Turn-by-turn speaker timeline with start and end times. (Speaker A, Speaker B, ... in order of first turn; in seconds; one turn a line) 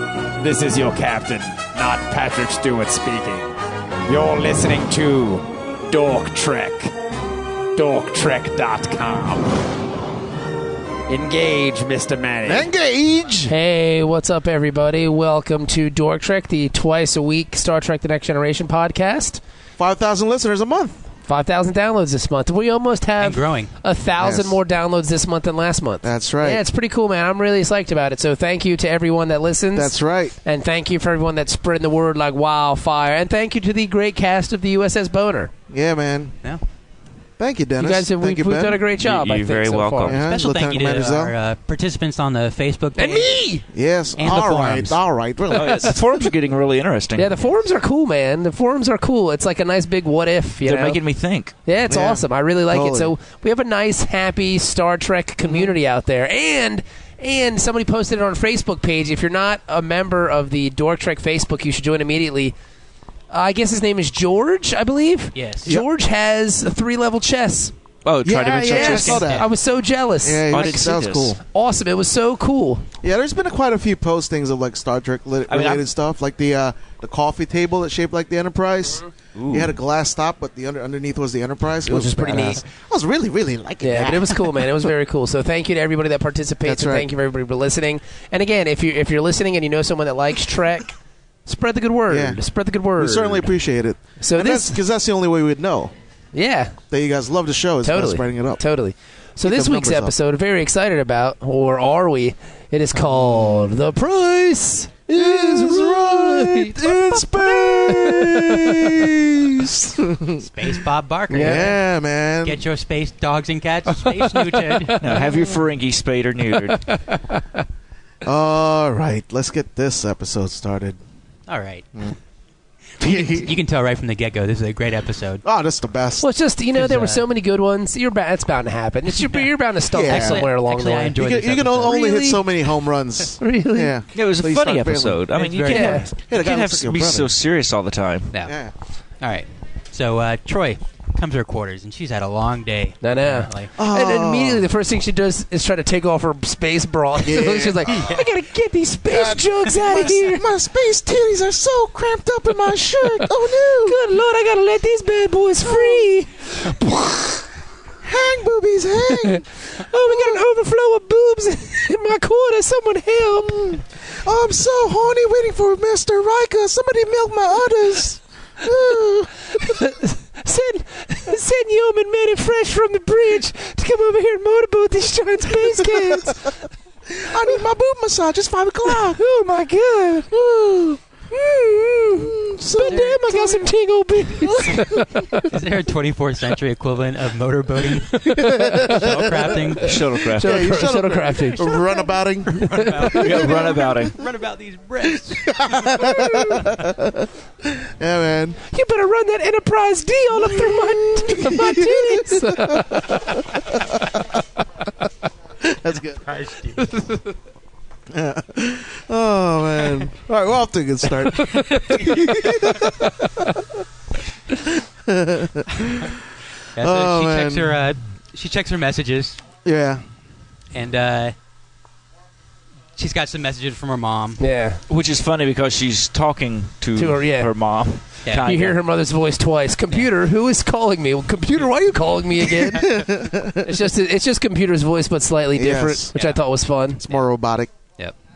Speaker A: 0.4-3.5
Speaker A: 4.1-6.9
Speaker A: 7.8-9.6
Speaker A: 11.1-12.7
Speaker B: 12.4-13.5
Speaker C: 13.5-19.4
Speaker B: 19.8-21.0
Speaker C: 21.3-35.5
Speaker D: 23.2-23.7
Speaker B: 24.2-24.6
Speaker B: 26.0-26.6
Speaker B: 29.7-30.4
Speaker B: 35.7-36.3
Speaker B: 37.4-38.8
Speaker C: 37.8-40.2
Speaker E: 38.9-40.2
Speaker B: 40.0-41.3
Speaker D: 40.2-43.4
Speaker C: 43.0-43.6
Speaker B: 43.7-46.0
Speaker D: 44.1-45.0
Speaker E: 45.5-47.3
Speaker C: 47.1-51.0
Speaker E: 50.6-51.5
Speaker C: 51.6-62.5
Speaker B: 51.9-53.1
Speaker C: 63.3-67.7
Speaker D: 65.3-65.7
Speaker E: 68.0-69.2
Speaker B: 68.2-69.5
Speaker C: 68.6-72.8
Speaker D: 69.1-69.4
Speaker B: 70.2-71.4
Speaker E: 70.5-71.3
Speaker B: 73.0-84.7
Speaker E: 75.5-75.8
Speaker E: 79.3-79.7
Speaker C: 81.9-82.6
Speaker C: 83.8-90.9
Speaker B: 86.6-87.1
Speaker C: 91.5-93.5
Speaker B: 92.1-92.4
Speaker B: 93.0-95.9
Speaker C: 94.2-94.8
Speaker C: 96.3-96.8
Speaker B: 96.9-98.6
Speaker C: 97.8-109.0
Speaker B: 99.4-100.1
Speaker B: 103.0-103.7
Speaker B: 105.1-110.5
Speaker D: 110.4-111.8
Speaker C: 111.3-111.7
Speaker B: 111.3-112.6
Speaker D: 112.4-115.2
Speaker C: 114.1-115.2
Speaker E: 115.0-116.9
Speaker C: 116.8-117.6
Speaker B: 118.2-121.0
Speaker D: 121.5-121.8
Speaker B: 123.0-123.6
Speaker D: 123.0-125.4
Speaker B: 125.4-126.2
Speaker C: 126.2-131.2
Speaker D: 126.7-127.2
Speaker B: 129.9-130.4
Speaker D: 130.0-131.9
Speaker B: 131.1-135.3
Speaker C: 131.8-132.5
Speaker C: 133.4-133.9
Speaker E: 134.1-138.3
Speaker D: 135.3-136.0
Speaker C: 135.7-136.1
Speaker B: 136.0-137.3
Speaker D: 138.3-138.6
Speaker B: 138.4-138.7
Speaker D: 139.2-143.7
Speaker C: 143.0-150.4
Speaker B: 143.8-144.7
Speaker B: 147.2-148.2
Speaker B: 149.1-154.0
Speaker C: 153.8-157.5
Speaker B: 155.6-156.1
Speaker B: 158.0-160.4
Speaker C: 159.2-163.8
Speaker B: 163.4-169.7
Speaker C: 169.5-176.6
Speaker B: 175.6-176.3
Speaker B: 177.1-179.2
Speaker C: 178.8-180.3
Speaker B: 180.3-181.0
Speaker C: 181.3-185.5
Speaker B: 182.1-183.6
Speaker D: 182.8-183.2
Speaker B: 184.4-185.4
Speaker D: 185.5-190.0
Speaker C: 188.1-189.3
Speaker B: 188.4-189.6
Speaker E: 189.8-190.7
Speaker C: 190.2-191.9
Speaker B: 190.3-193.8
Speaker D: 192.5-195.6
Speaker C: 192.6-193.5
Speaker E: 193.2-194.2
Speaker B: 195.4-198.6
Speaker C: 196.0-196.6
Speaker C: 198.6-203.4
Speaker B: 200.4-204.4
Speaker B: 205.6-206.3
Speaker D: 206.2-206.8
Speaker C: 206.8-207.2
Speaker B: 208.1-213.8
Speaker C: 211.5-212.1
Speaker C: 212.6-212.9
Speaker B: 214.5-216.2
Speaker D: 216.7-219.4
Speaker B: 216.8-217.8
Speaker B: 219.6-220.0
Speaker D: 220.7-221.3
Speaker D: 223.0-224.4
Speaker C: 224.4-224.8
Speaker E: 224.9-228.8
Speaker C: 226.9-227.5
Speaker C: 228.4-233.1
Speaker B: 232.4-233.7
Speaker C: 233.6-237.0
Speaker B: 235.6-236.1
Speaker D: 236.1-236.4
Speaker B: 237.0-237.7